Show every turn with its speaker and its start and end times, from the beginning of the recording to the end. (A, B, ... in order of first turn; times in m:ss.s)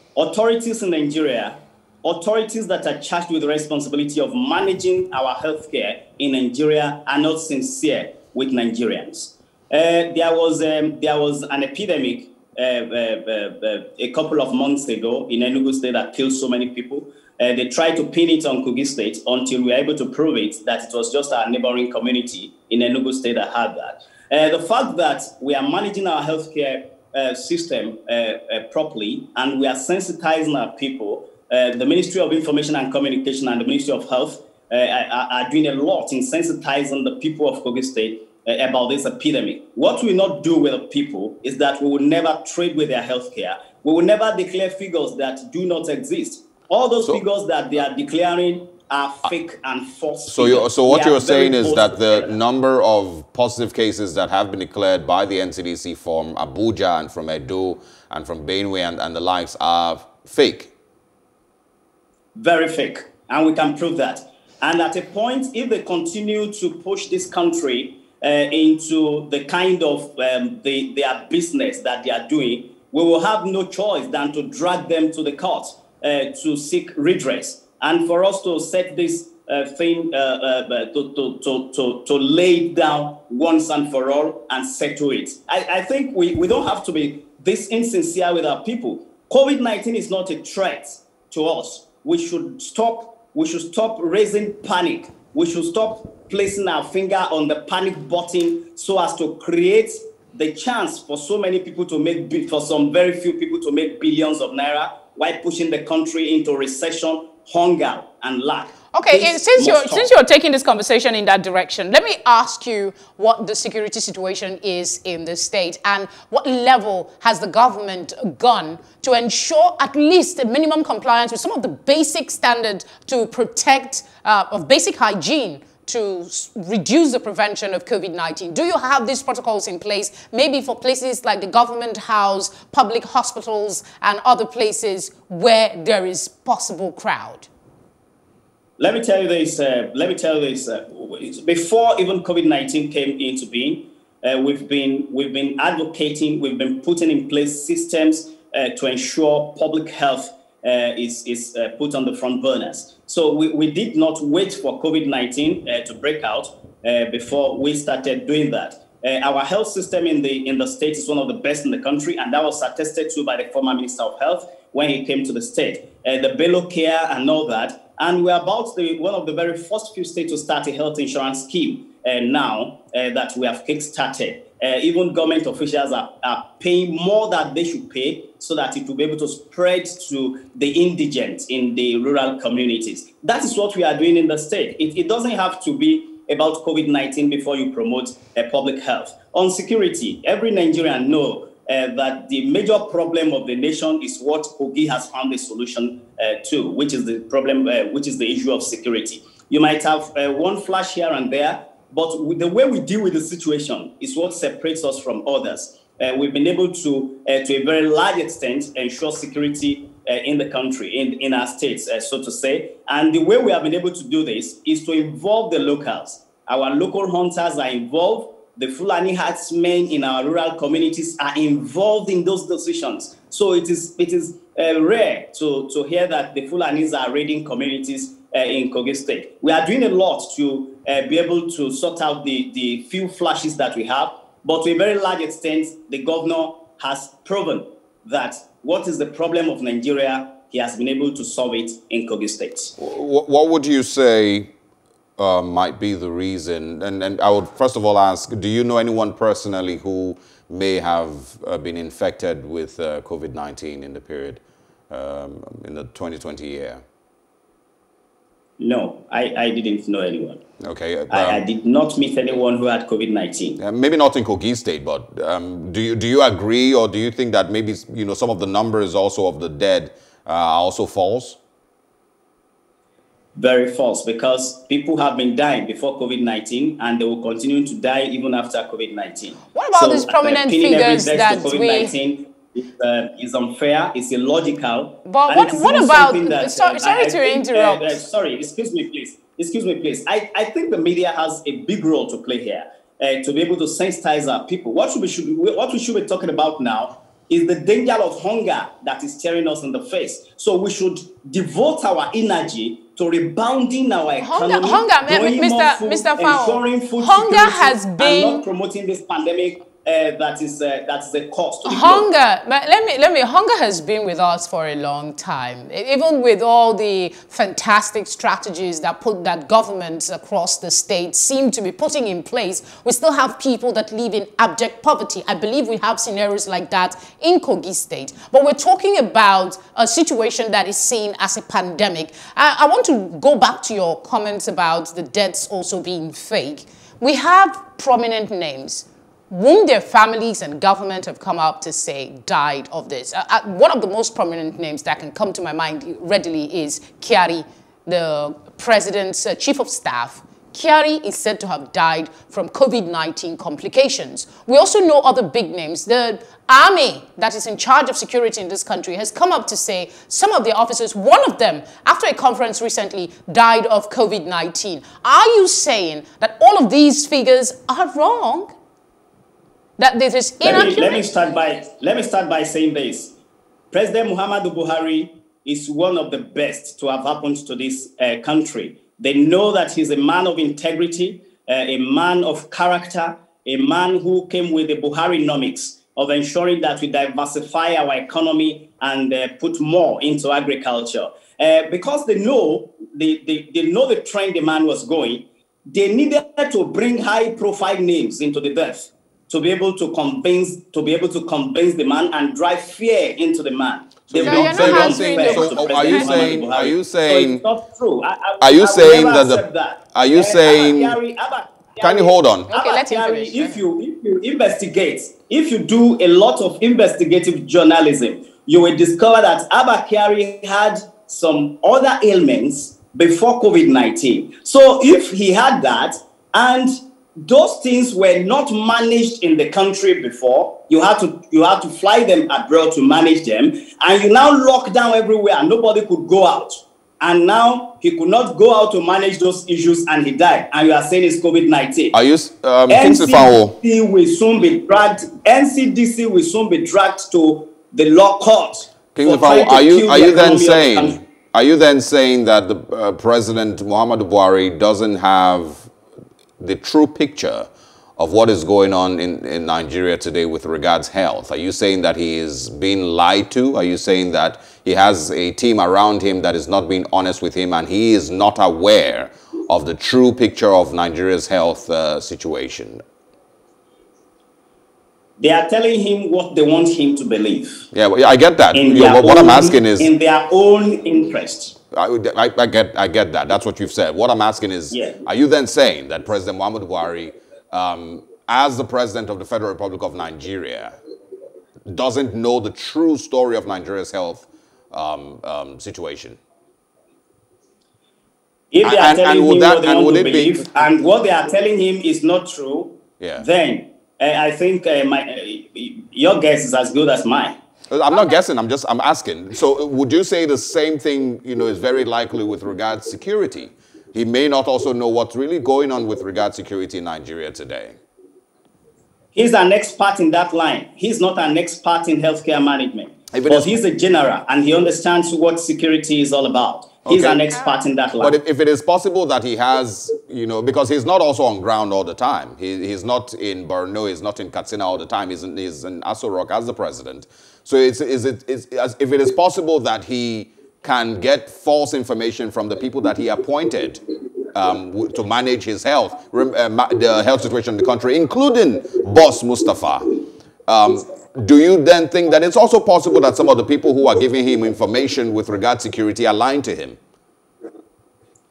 0:00.1-0:52.4 A
0:50.3-1:00.7 B
1:02.3-1:50.1 A
1:48.9-2:17.5 C
2:18.8-4:02.7 A
4:02.8-4:04.5 B
4:05.2-4:16.8 B
4:18.6-4:20.4 A
4:20.6-4:21.4 B
4:21.1-4:23.6 A
4:23.6-4:31.4 B
4:33.4-5:12.1 A
4:39.5-4:41.9 C
4:45.0-4:48.0 C
5:04.2-5:08.4 C
5:11.6-6:08.5 C
6:09.8-6:11.0 C
6:10.4-6:13.1 A
6:13.7-7:21.9 A
6:44.1-6:47.4 B
6:44.2-6:46.5 C
6:48.4-6:51.0 B
6:51.8-6:52.5 B
6:52.5-6:53.6 C
7:21.9-7:23.6 B
7:22.7-7:31.0 A
7:28.9-7:35.7 B
7:36.4-7:52.8 B
7:55.2-7:57.7 A
7:57.7-7:59.9 B
7:58.5-8:01.6 A
8:01.7-8:10.8 B
8:04.7-8:05.0 A
8:11.7-8:16.2 B
8:18.5-8:27.4 A
8:18.6-8:20.4 B
8:23.0-8:23.2 B
8:27.7-8:37.8 B
8:39.1-8:48.2 A
8:43.1-8:43.5 B
8:46.8-8:47.2 B
8:48.0-9:09.9 B
9:10.5-9:16.8 B